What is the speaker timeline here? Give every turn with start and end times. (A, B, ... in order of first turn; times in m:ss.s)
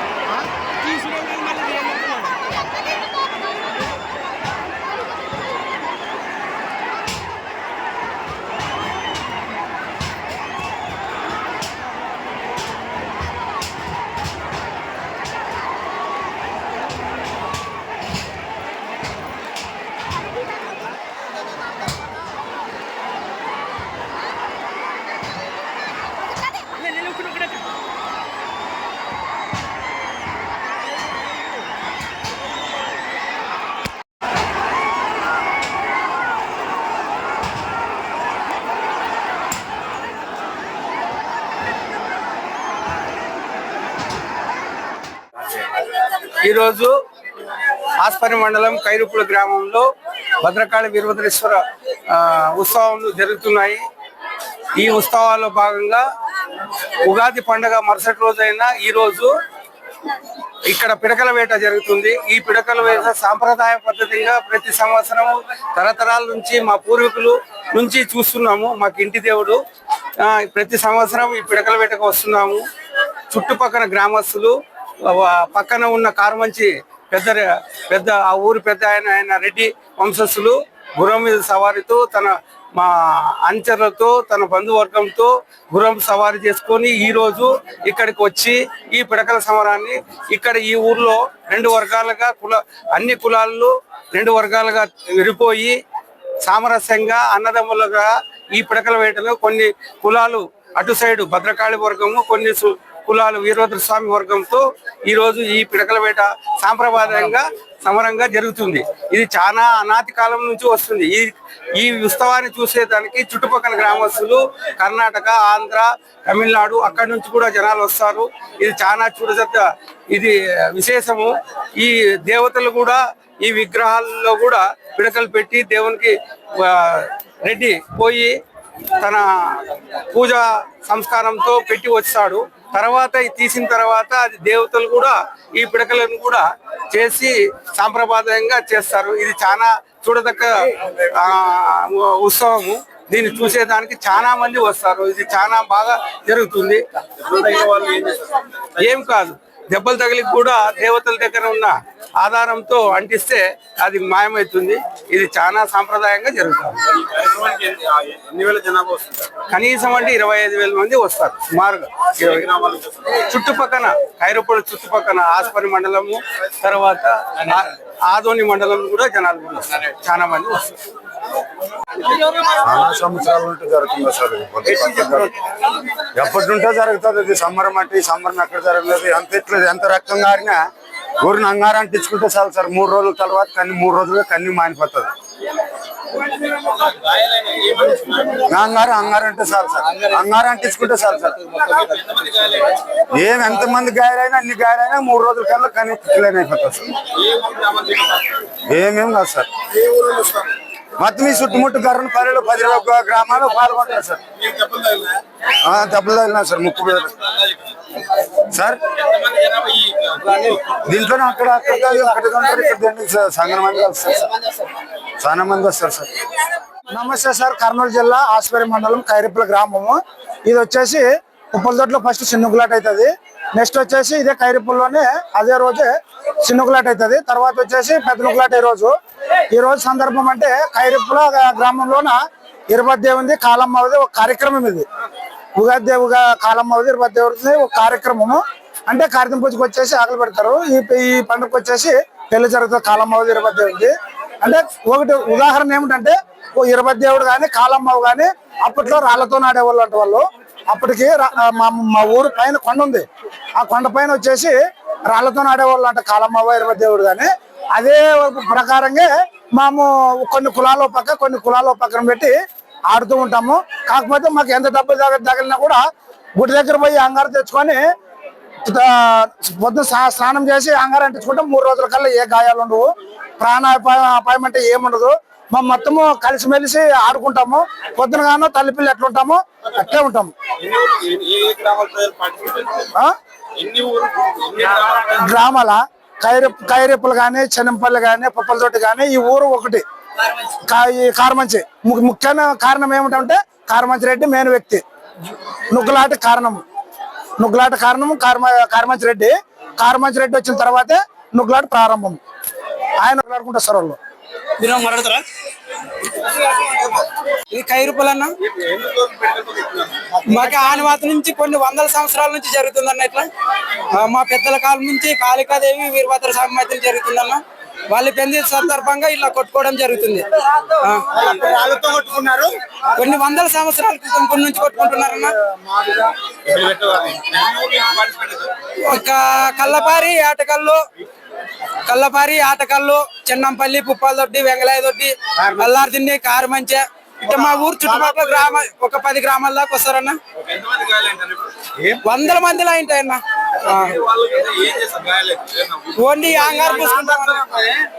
0:46.4-0:46.9 A
0:48.0-0:49.9 A
0:50.4-0:51.6 A
0:52.1-0:53.8 A
0:54.8-0:56.0 A
0:57.0-0:59.3 A
1:00.7-1:09.6 A
1:10.2-1:12.6 A
1:13.3-1:35.8 A
1:36.4-2:08.4 A
2:09.0-2:26.8 A
2:27.2-2:28.8 B
2:28.9-2:36.8 A
2:36.9-2:39.3 B
2:39.5-2:42.4 A
2:42.3-2:42.9 B
2:43.1-2:50.8 A
2:52.4-2:55.3 C
2:56.0-3:00.6 C
3:01.2-3:05.1 C
3:06.5-3:08.4 B
3:08.4-3:11.6 C
3:11.6-3:12.8 B
3:13.0-3:17.0 C
3:17.1-3:18.4 B
3:18.6-3:19.5 C
3:19.8-3:20.5 B
3:21.0-3:24.2 C
3:24.4-3:25.2 B
3:25.6-3:27.2 C
3:27.2-3:27.6 B
3:28.4-3:29.0 C
3:29.0-3:30.8 B
3:30.7-3:34.3 C
3:35.2-3:36.1 C
3:36.9-3:49.0 D
3:49.5-3:52.2 D
3:52.7-3:54.9 D
3:55.6-4:13.1 D
4:13.6-4:14.6 D
4:15.1-4:22.4 D
4:22.9-4:25.8 D
4:26.4-4:27.8 D
4:28.6-4:40.3 D
4:40.5-4:42.9 B
4:43.6-4:45.2 B
4:45.2-4:49.8 D
4:50.6-4:54.8 D
4:55.7-4:56.6 D
4:57.4-5:02.2 D
5:03.0-5:04.0 D
5:04.6-5:05.3 E
5:06.4-5:08.3 E
5:08.4-5:10.2 B
5:10.2-5:13.3 E
5:13.8-5:21.1 E
5:21.2-5:22.1 B
5:22.2-5:22.5 D
5:22.9-5:25.4 E
5:25.4-5:28.6 B
5:28.8-5:30.8 E
5:31.8-5:40.2 E
5:40.4-5:41.7 B
5:41.8-5:44.0 E
5:43.8-5:46.4 B
5:45.9-5:47.8 E
5:47.2-5:47.6 B